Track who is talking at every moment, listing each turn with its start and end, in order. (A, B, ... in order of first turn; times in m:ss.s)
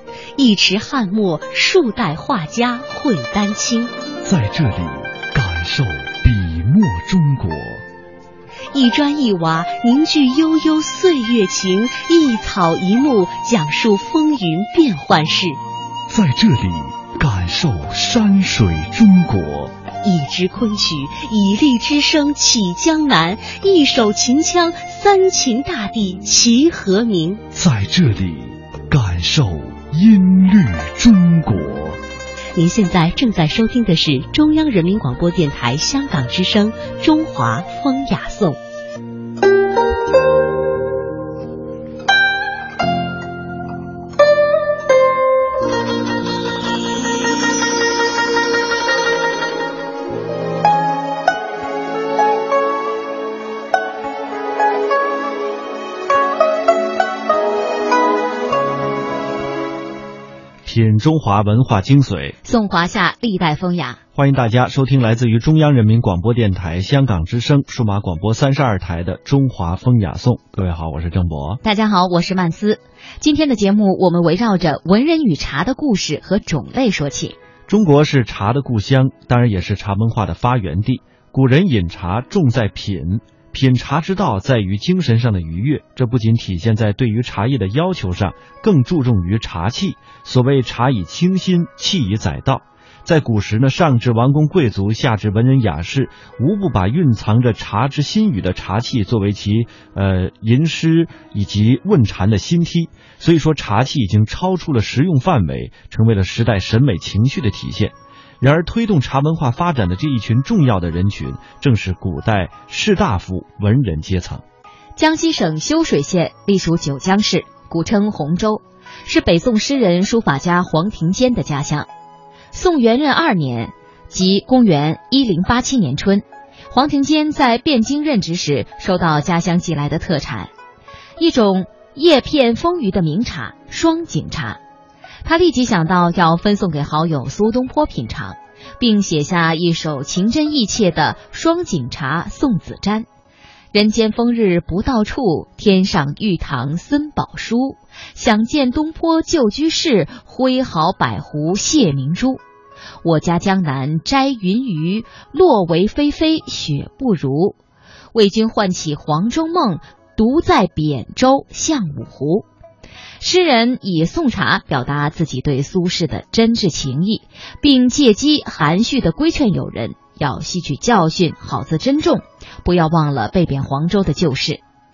0:00.4-0:03.9 A
0:04.2-0:07.8 B
0:08.7-0:15.6 A
0:16.1-0:19.7 B
0:20.0-0:27.4 A
0:27.5-0:32.0 B
0:32.5-0:38.6 A
1:00.6-1:02.4 C
1:02.4-1:04.0 D
1:04.1-1:11.6 C
1:11.6-1:17.4 D
1:17.7-1:54.4 C
1:55.0-2:01.9 D
2:02.5-2:10.5 D
2:11.2-2:14.6 D
2:15.2-2:23.0 D
2:23.7-2:32.4 D
2:33.0-2:37.6 D
2:38.1-2:42.4 D
2:43.2-2:54.6 D